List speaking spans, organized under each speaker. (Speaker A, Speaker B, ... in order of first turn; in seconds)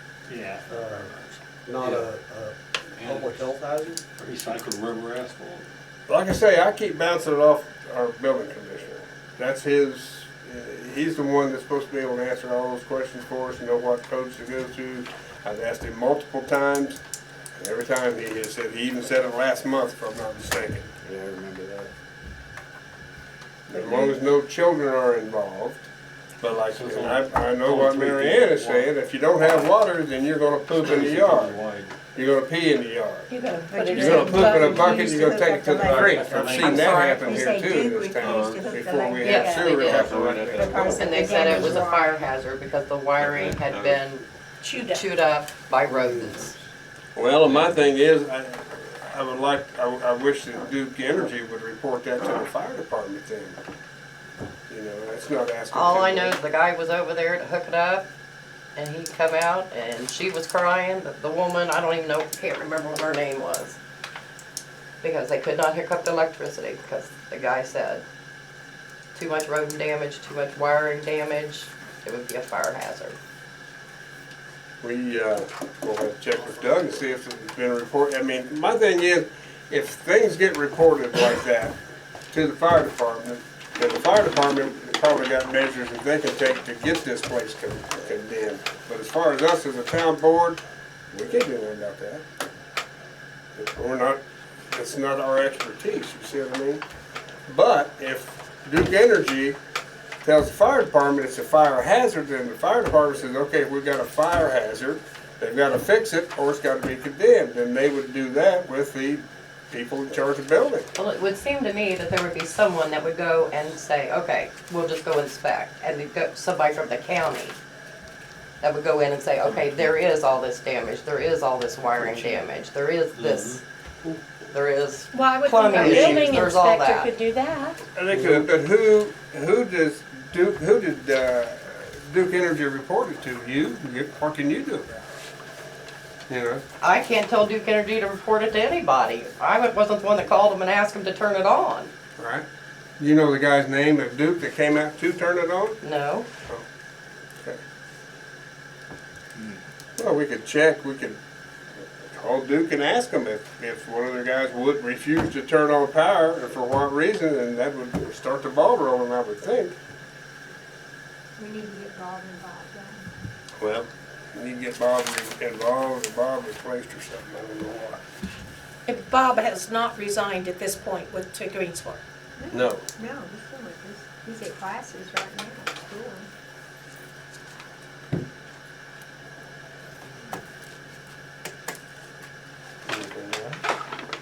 Speaker A: 0.3-0.7, 1.8-2.1, 3.0-3.4, 4.1-5.6, 26.7-29.7, 30.8-31.9, 35.8-37.4, 38.2-38.7, 40.0-40.7, 41.4-41.7, 43.4-44.0, 47.4-47.9, 123.1-123.6
Speaker B: 0.7-1.1, 1.6-4.1, 40.7-41.1
Speaker C: 6.1-17.0, 17.6-21.9, 23.7-25.9, 26.4-31.6, 32.1-33.3, 33.9-40.9, 47.1-53.6, 54.7-56.4, 74.8-81.8, 82.3-90.6, 91.1-92.2, 93.5-94.2, 94.7-96.8, 97.5-99.6, 100.2-110.9, 125.8-126.4, 127.9-134.9, 136.3-136.6, 142.2-142.4, 143.0-145.8, 150.0-151.2, 152.0-159.7, 163.6-168.0, 172.5-172.8
Speaker D: 23.7-24.2, 33.3-35.3, 44.6-45.0, 125.1-127.8, 168.9-172.0
Speaker E: 33.7-42.1, 161.4-163.0, 172.4-176.3
Speaker F: 39.2-40.1, 40.9-44.2, 44.8-46.5, 55.7-58.0, 58.8-63.8, 65.0-68.0, 69.1-73.2, 111.0-117.5, 118.6-123.6, 124.5-127.1, 136.8-141.9, 145.8-146.2